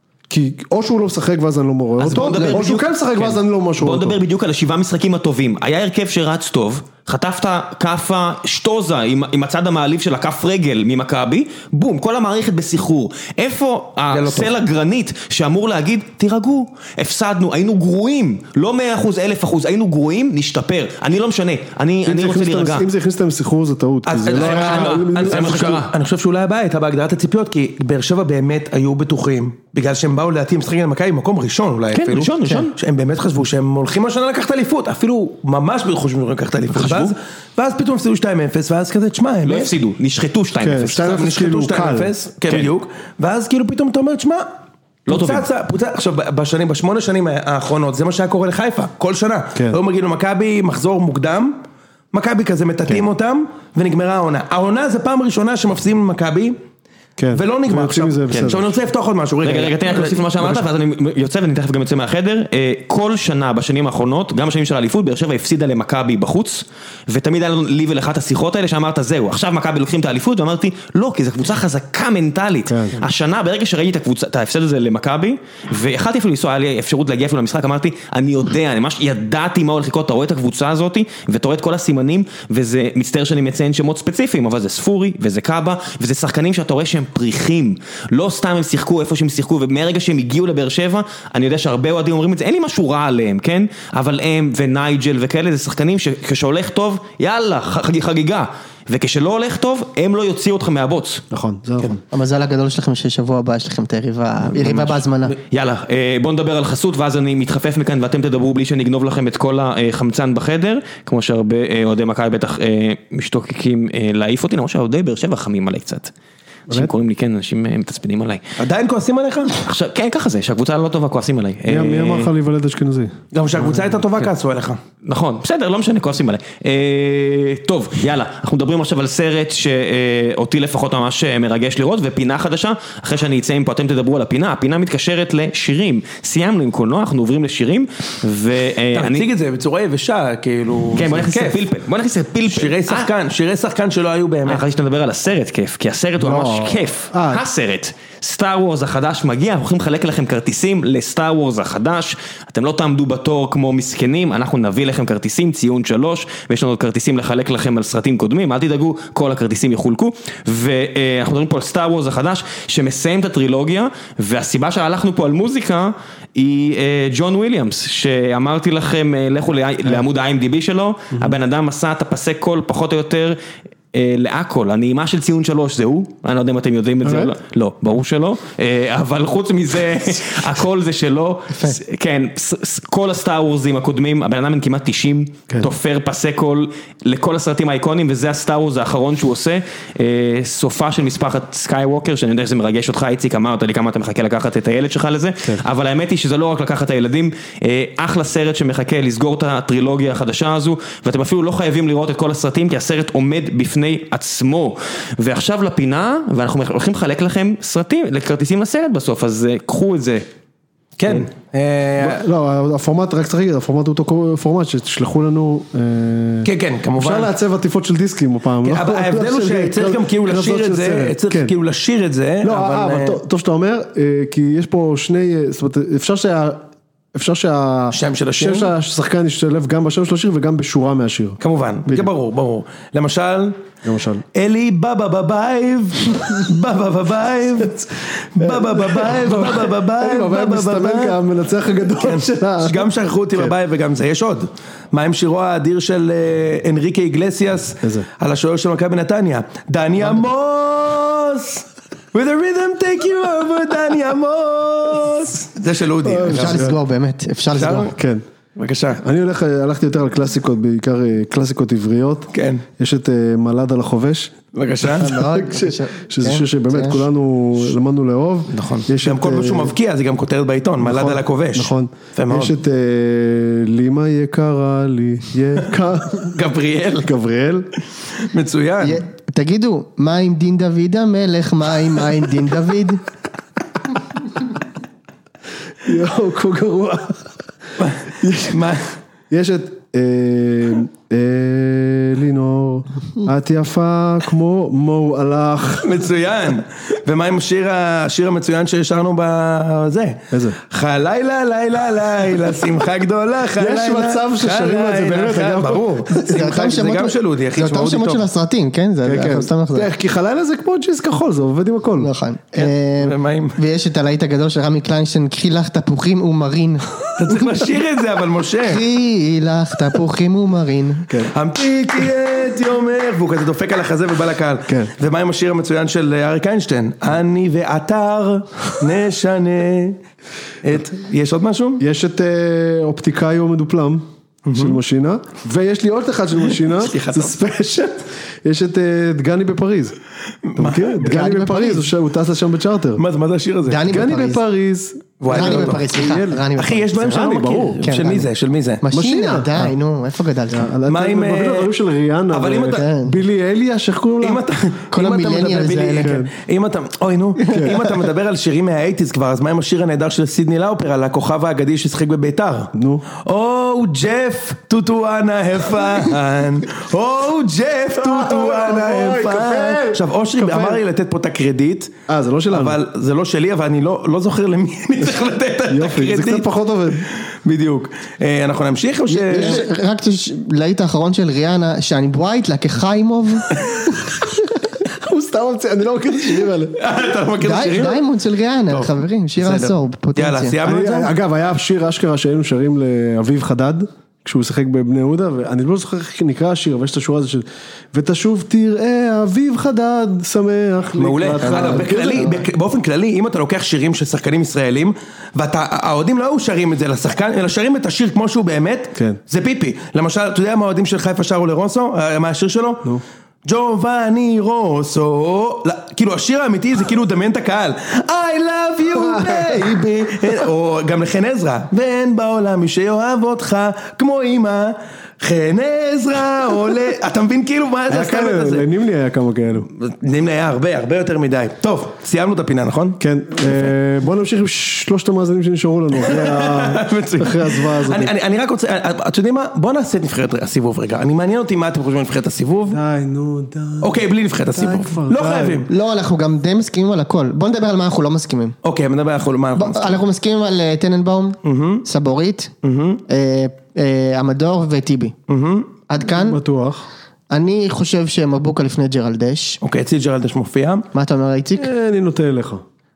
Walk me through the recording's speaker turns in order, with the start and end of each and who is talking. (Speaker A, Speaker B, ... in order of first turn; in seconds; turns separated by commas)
Speaker A: 0.3-4.2, Speaker B: 2.0-22.9, Speaker C: 2.2-2.6, Speaker D: 14.1-14.6, Speaker A: 22.1-25.8, Speaker D: 24.1-39.7, Speaker B: 24.3-25.9, Speaker B: 31.9-32.7, Speaker B: 36.7-37.1, Speaker B: 39.5-41.0, Speaker A: 40.6-42.1, Speaker D: 41.0-44.5, Speaker B: 42.5-42.7, Speaker D: 45.1-51.6, Speaker B: 45.1-45.5, Speaker D: 52.1-56.6, Speaker A: 57.2-58.7, Speaker D: 57.3-60.6, Speaker B: 58.3-58.6, Speaker B: 59.4-101.2, Speaker A: 72.7-73.0, Speaker A: 101.3-102.0, Speaker C: 102.1-105.4, Speaker B: 104.6-116.1, Speaker B: 116.7-118.4, Speaker D: 118.6-119.5, Speaker B: 119.6-122.3, Speaker A: 121.7-123.2, Speaker D: 123.3-124.8, Speaker B: 125.0-139.3, Speaker D: 138.9-141.6, Speaker B: 141.0-143.1, Speaker D: 142.5-144.6, Speaker B: 144.5-173.4, Speaker A: 146.2-147.4, Speaker B: 173.9-210.2, Speaker A: 177.0-177.3, Speaker D: 211.0-212.2, Speaker A: 212.0-221.5, Speaker D: 216.4-217.3, Speaker D: 218.6-223.2, Speaker A: 222.4-226.6, Speaker A: 227.1-232.1, Speaker D: 227.9-228.7, Speaker D: 231.4-233.7, Speaker A: 233.8-234.2, Speaker D: 234.3-241.2, Speaker A: 238.4-243.6, Speaker D: 242.0-256.7, Speaker A: 256.0-256.8, Speaker C: 256.3-257.9, Speaker D: 257.5-257.9, Speaker A: 257.9-258.2, Speaker D: 258.6-259.0, Speaker A: 259.0-264.4, Speaker D: 262.3-262.6, Speaker D: 264.5-265.1, Speaker C: 265.0-267.1, Speaker A: 265.0-269.7, Speaker D: 268.5-272.6, Speaker A: 270.8-276.4, Speaker D: 276.1-277.1, Speaker A: 277.0-277.7, Speaker D: 278.2-279.0, Speaker C: 278.8-283.0, Speaker A: 285.8-287.4, Speaker D: 287.8-288.9, Speaker A: 288.2-288.7, Speaker A: 289.3-296.1, Speaker D: 295.8-308.2, Speaker A: 300.3-300.6, Speaker A: 303.6-306.5, Speaker C: 306.1-309.9, Speaker A: 309.0-312.1, Speaker C: 312.0-317.1, Speaker D: 312.6-313.6, Speaker D: 317.2-318.8, Speaker C: 318.6-321.1, Speaker A: 321.1-321.3, Speaker D: 321.3-330.0, Speaker A: 324.7-324.9, Speaker D: 330.6-331.8, Speaker A: 331.8-340.0, Speaker D: 334.4-334.8, Speaker D: 336.6-337.3, Speaker D: 340.5-341.1, Speaker A: 340.6-343.0, Speaker C: 341.0-341.9, Speaker D: 343.0-343.9, Speaker C: 343.7-344.4, Speaker A: 343.9-346.5, Speaker D: 345.2-345.9, Speaker C: 345.3-347.3, Speaker D: 346.6-348.8, Speaker A: 347.0-347.9, Speaker C: 347.8-348.3, Speaker C: 348.8-350.7, Speaker A: 348.9-349.7, Speaker A: 350.5-354.4, Speaker D: 350.9-351.7, Speaker D: 352.3-352.8, Speaker C: 352.7-353.2, Speaker D: 354.2-362.7, Speaker C: 354.9-356.2, Speaker A: 356.0-356.3, Speaker A: 357.5-357.8, Speaker A: 362.7-363.1, Speaker D: 363.2-372.0, Speaker A: 368.0-370.8, Speaker A: 372.1-372.8, Speaker D: 372.5-376.5, Speaker A: 375.7-377.1, Speaker D: 377.3-379.7, Speaker C: 379.1-383.6, Speaker A: 384.8-386.8, Speaker D: 386.8-388.0, Speaker C: 387.4-390.6, Speaker D: 388.7-391.1, Speaker A: 390.6-402.5, Speaker D: 401.0-428.7, Speaker C: 401.4-401.9, Speaker A: 418.9-420.4, Speaker A: 427.9-429.7, Speaker D: 429.8-433.7, Speaker A: 433.0-438.1, Speaker D: 436.0-442.8, Speaker A: 442.7-444.0, Speaker D: 443.8-445.7, Speaker A: 444.5-445.7, Speaker C: 445.7-448.6, Speaker D: 448.6-450.0, Speaker C: 449.6-452.5, Speaker D: 451.4-451.9, Speaker D: 452.6-453.0, Speaker C: 453.1-455.1, Speaker D: 455.3-455.7, Speaker C: 455.9-456.4, Speaker A: 456.1-456.9, Speaker C: 457.3-459.6, Speaker D: 459.6-460.9, Speaker C: 460.9-461.7, Speaker A: 461.6-462.6